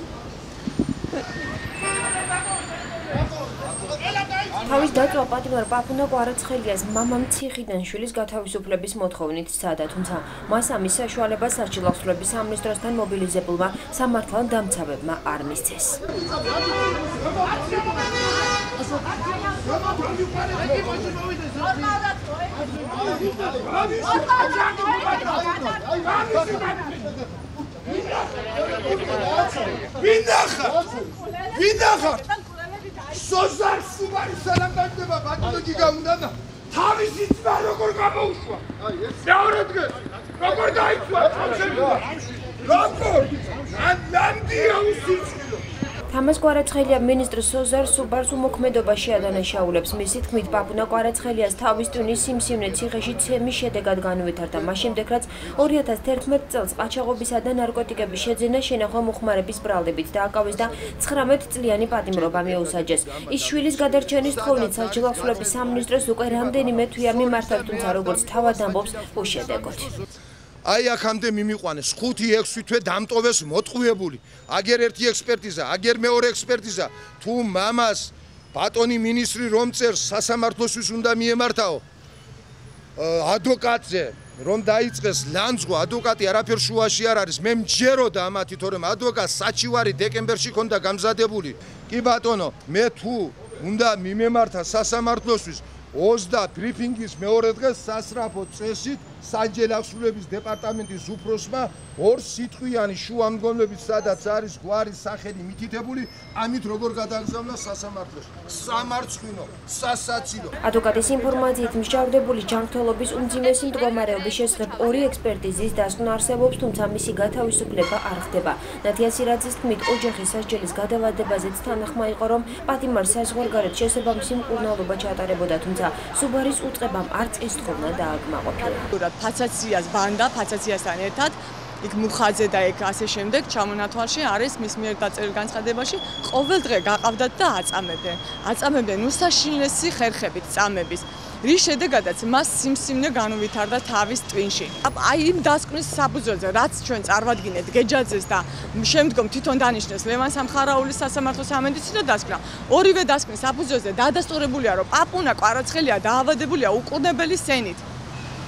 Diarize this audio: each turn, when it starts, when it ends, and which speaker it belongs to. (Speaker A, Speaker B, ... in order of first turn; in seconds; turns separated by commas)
Speaker A: 3.9-5.0, Speaker B: 4.6-16.0, Speaker A: 17.4-17.8, Speaker A: 19.9-21.2, Speaker A: 23.0-27.1, Speaker A: 27.7-32.4, Speaker A: 33.0-45.6, Speaker B: 46.1-69.9, Speaker A: 62.1-69.9, Speaker A: 70.6-81.8, Speaker A: 83.0-110.5, Speaker B: 110.6-128.9, Speaker C: 128.9-157.8